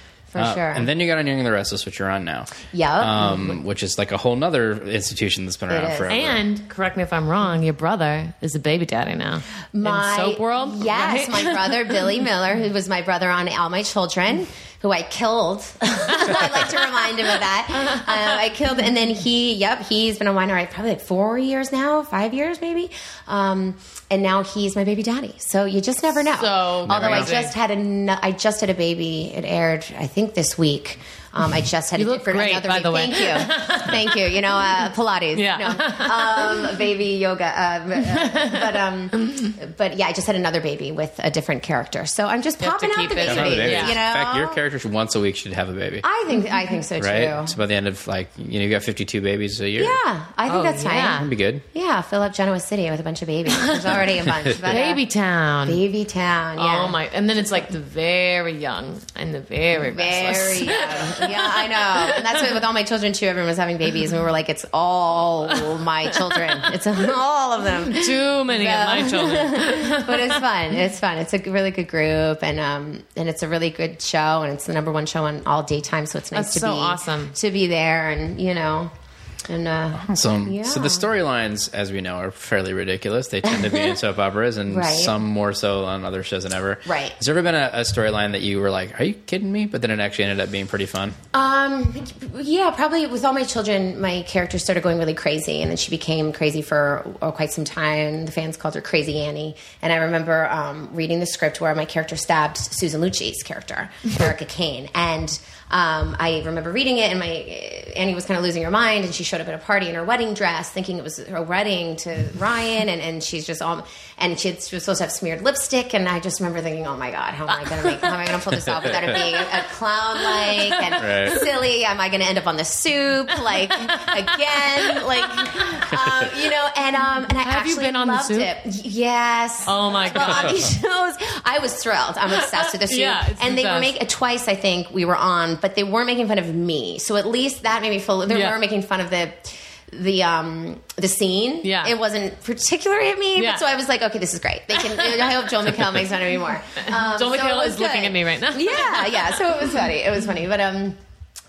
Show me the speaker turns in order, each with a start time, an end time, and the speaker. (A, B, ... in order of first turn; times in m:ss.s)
0:00.3-0:00.9 A
0:00.4-0:06.4 B
0:02.7-0:03.6 A
0:05.7-0:06.3 A
0:06.1-0:12.1 C
0:09.7-0:44.6 A
0:16.1-0:16.7 C
0:17.7-0:18.4 C
0:26.3-0:27.5 C
0:26.9-0:27.4 B
0:32.0-0:34.4 C
0:35.3-0:36.7 C
0:38.0-0:39.5 C
0:42.6-0:44.0 C
0:43.2-0:46.0 B
0:46.0-0:47.6 A
0:46.3-0:46.6 C
0:47.0-0:50.0 B
0:49.8-0:55.0 A
0:50.5-0:51.3 C
0:51.2-0:51.6 B
0:53.5-0:54.0 C
0:54.3-0:54.6 B
0:54.6-0:55.8 C
0:55.7-0:57.0 A
0:56.6-1:02.6 C
0:59.8-1:18.9 A
1:05.5-1:06.7 C
1:07.9-1:10.4 C
1:16.3-1:17.3 C
1:19.5-1:21.1 A
1:20.0-1:31.2 B
1:23.4-1:24.0 A
1:24.7-1:25.2 A
1:26.9-1:27.2 A
1:31.3-2:31.0 A
1:57.5-1:58.3 C
1:58.7-1:59.1 B
1:59.1-1:59.5 C
2:00.2-2:01.5 C
2:01.0-2:01.4 B
2:03.3-2:05.9 C
2:07.4-2:08.5 C
2:09.6-2:10.7 C
2:12.3-2:13.9 C
2:18.3-2:18.6 C
2:21.6-2:21.9 C
2:23.4-2:23.6 C
2:24.9-2:25.3 C
2:26.8-2:29.4 C